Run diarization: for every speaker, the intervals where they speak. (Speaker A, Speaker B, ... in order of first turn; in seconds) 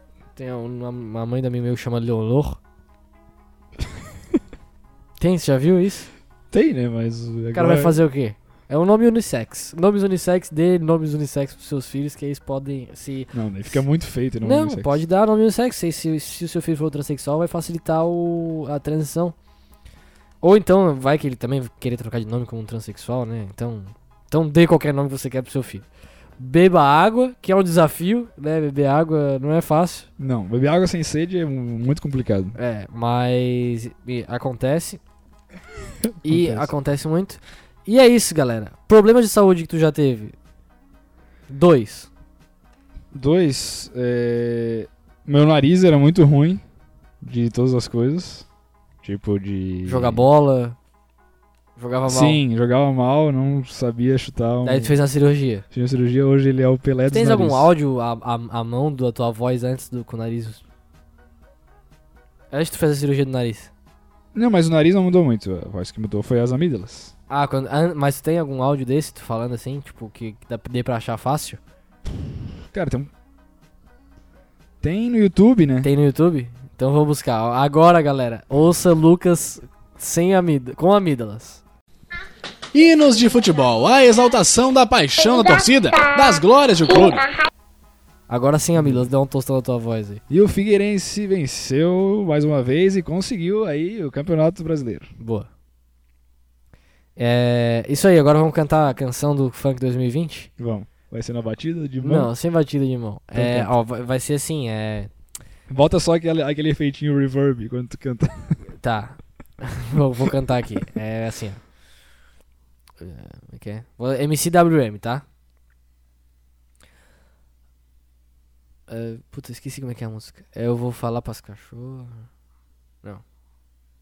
Speaker A: 0.3-2.6, 5.2-6.1, 7.5-13.8, 14.4-19.3, 20.4-25.8, 26.4-30.1, 32.5-35.0, 36.2-40.3, 41.5-42.1, 49.8-50.8, 51.8-52.4, 54.6-55.6, 57.1-60.6, 62.5-63.7, 67.3-71.6, 75.8-81.6, 88.3-90.2, 95.2-95.5, 97.2-100.5, 102.0-105.1, 108.8-111.6, 113.0-115.2, 118.9-122.3
Speaker B: 6.5-8.0, 13.3-14.9, 30.2-32.5, 36.0-36.7, 43.1-46.6, 47.2-48.5, 49.0-50.2, 52.0-54.9, 55.7-57.7, 64.3-67.1, 72.7-73.1, 74.8-75.9, 88.8-89.1, 90.3-95.1, 100.6-102.3, 103.3-103.7, 105.7-108.6
Speaker C: 82.7-87.3